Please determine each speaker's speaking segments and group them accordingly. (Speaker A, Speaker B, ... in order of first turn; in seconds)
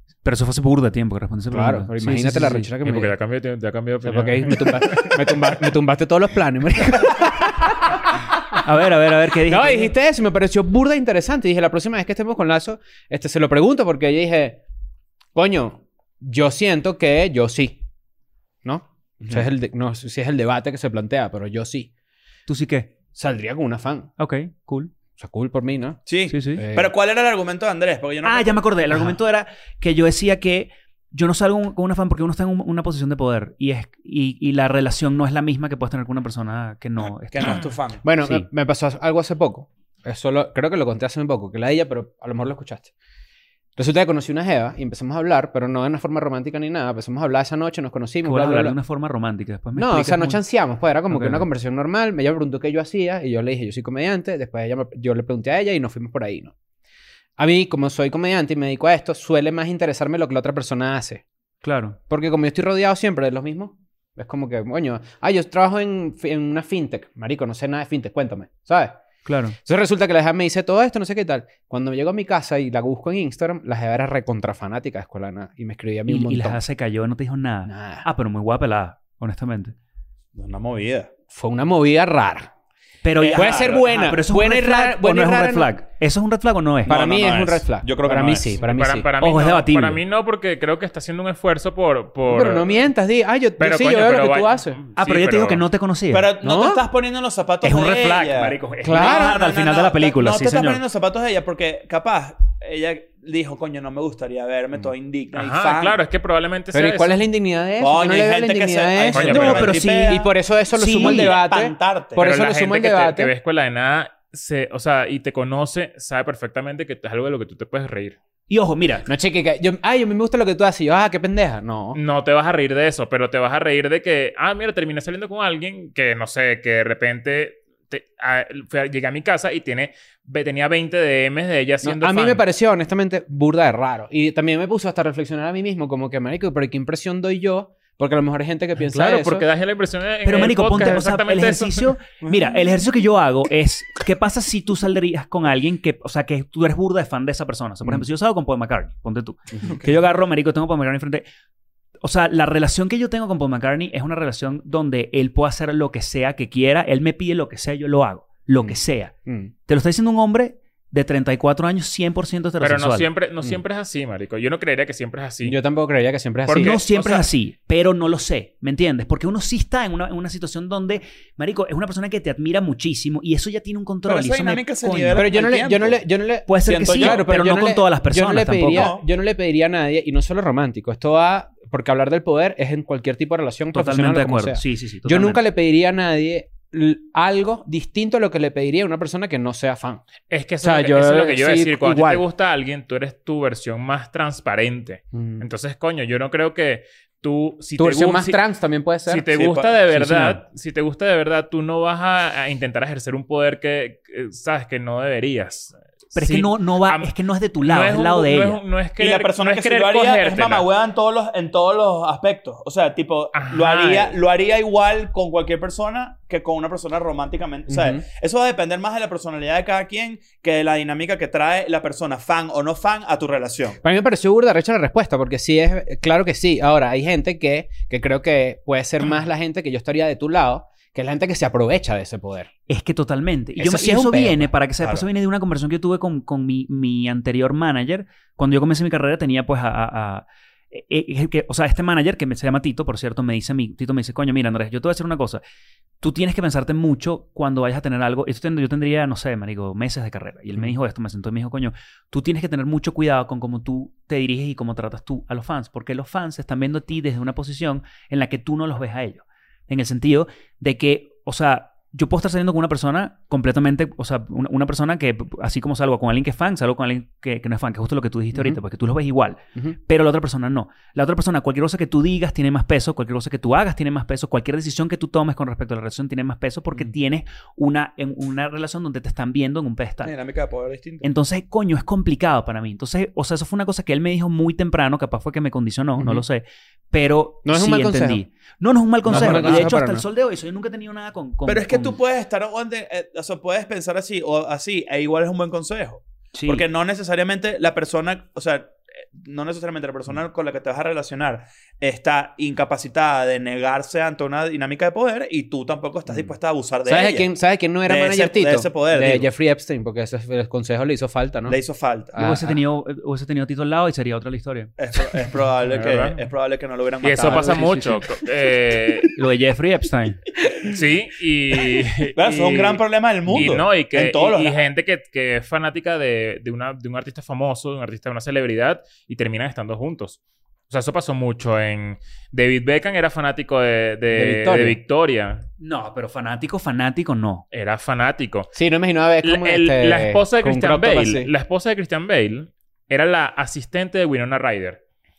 Speaker A: 0.2-2.7, 8.6-9.9, 22.5-22.9, 24.2-24.9, 26.3-26.6, 28.2-37.7, 38.2-38.5, 48.2-50.4, 51.1-51.5, 61.6-62.0, 69.2-69.5, 76.0-79.7, 83.0-87.0, 89.2-90.0, 95.0-96.3, 97.6-100.8, 109.2-111.4, 118.5-119.1, 140.2-151.2, 152.0-159.1, 159.7-163.1, 166.5-175.4, 176.5-178.9, 183.7-185.4, 206.1-208.6, 232.7-245.4, 246.0-280.1, 281.0-291.9, 296.3-296.6, 312.1-314.7, 317.2-317.9, 319.1-320.2, 335.6-337.4
Speaker B: 1.5-3.1, 4.0-8.6, 9.4-14.6, 15.3-17.8, 18.6-21.9, 23.1-24.1, 25.2-26.0, 26.6-26.9, 38.0-42.9, 43.8-48.8, 49.8-56.5, 57.4-61.2, 62.1-69.0, 69.6-76.6, 77.7-78.0, 81.3-82.5, 83.3-85.7, 86.8-89.1, 92.3-94.8, 96.4-96.8, 98.8-99.4, 106.7-113.3, 119.1-122.0, 131.8-139.4, 158.6-159.5, 165.4-166.8, 175.1-190.0, 190.6-192.2, 195.1-195.4, 197.8-200.3, 217.7-218.0, 223.8-232.5, 233.6-234.5, 268.3-268.6, 286.0-286.2, 287.4-288.2, 289.0-290.0, 306.9-311.6, 312.1-312.6, 334.1-334.8, 338.5-341.3
Speaker C: 2.8-5.6, 88.6-92.9, 93.6-95.6, 105.3-107.2, 109.1-109.7, 112.2-118.2, 121.9-132.4, 138.8-141.9, 162.6-165.6, 166.4-167.2, 190.3-198.4, 199.1-210.7, 213.3-214.0, 315.7-316.2, 317.0-319.1, 320.6-335.4, 337.5-338.5, 339.2-344.8
Speaker D: 26.1-28.6, 37.3-38.0, 80.3-81.1, 83.2-83.8, 86.9-88.6, 96.1-106.0, 107.8-110.3, 110.8-112.2, 174.1-176.0, 176.6-177.2, 178.7-179.0, 199.4-199.7, 209.0-223.8, 280.0-281.1, 289.1-289.7, 291.4-307.3, 307.8-309.3, 311.5-312.1, 314.8-317.8, 322.1-324.6